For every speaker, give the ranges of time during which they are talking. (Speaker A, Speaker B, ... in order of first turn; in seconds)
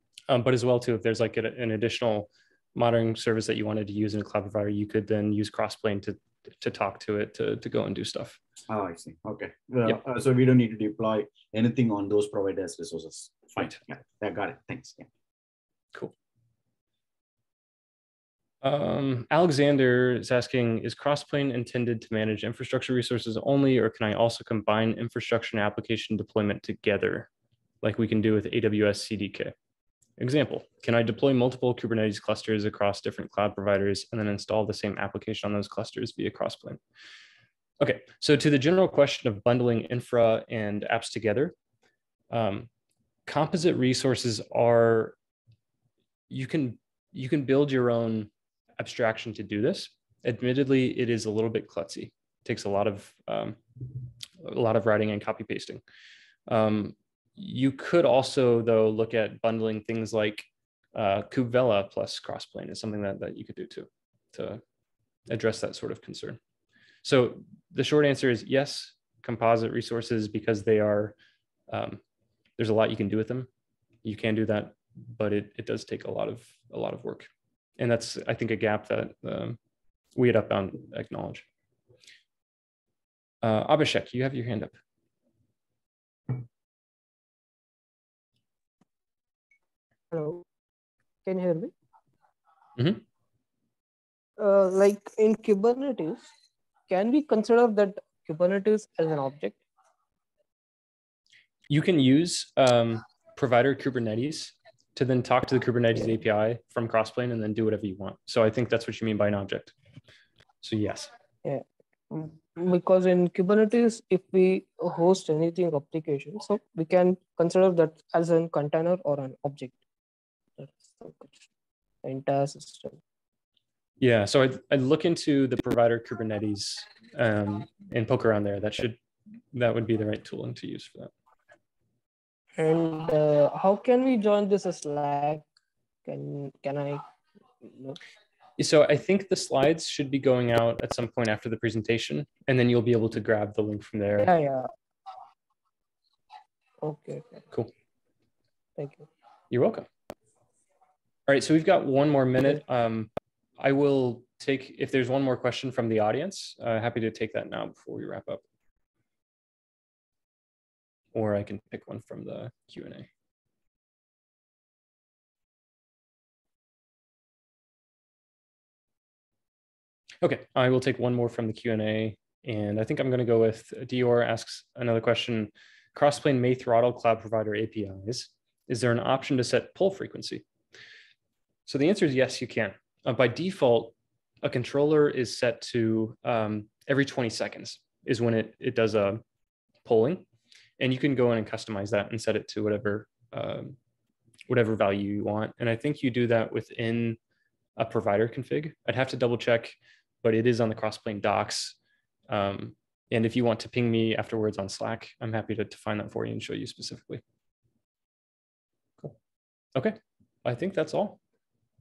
Speaker A: 0.3-8.4, 18.6-27.3, 27.8-29.5, 30.2-36.8, 37.8-41.5, 42.3-42.7, 43.3-45.2, 46.3-53.6, 54.4-55.8, 56.5-64.6, 65.3-66.4, 67.0-71.2, 71.7-72.0, 72.6-73.5, 74.0-79.6, 80.2-81.5, 83.4-84.8, 92.8-93.0, 101.7-109.7, 110.6-111.1, 124.0-129.0, 129.5-131.1, 138.6-144.3, 149.5-149.9, 151.3-158.4, 161.1-163.1, 170.2-180.4, 181.7-189.2, 189.8-190.3, 190.8-193.8, 194.5-197.2, 197.8-201.8, 202.3-207.2, 209.8-211.2
Speaker B: 8.7-15.1
Speaker C: 90.1-90.5, 91.2-91.7, 94.4-96.3, 96.9-99.6, 111.4-119.8, 120.6-121.4, 122.0-123.0, 132.6-135.4, 136.1-137.0, 137.6-138.0, 144.2-144.7, 146.8-147.5, 148.8-149.1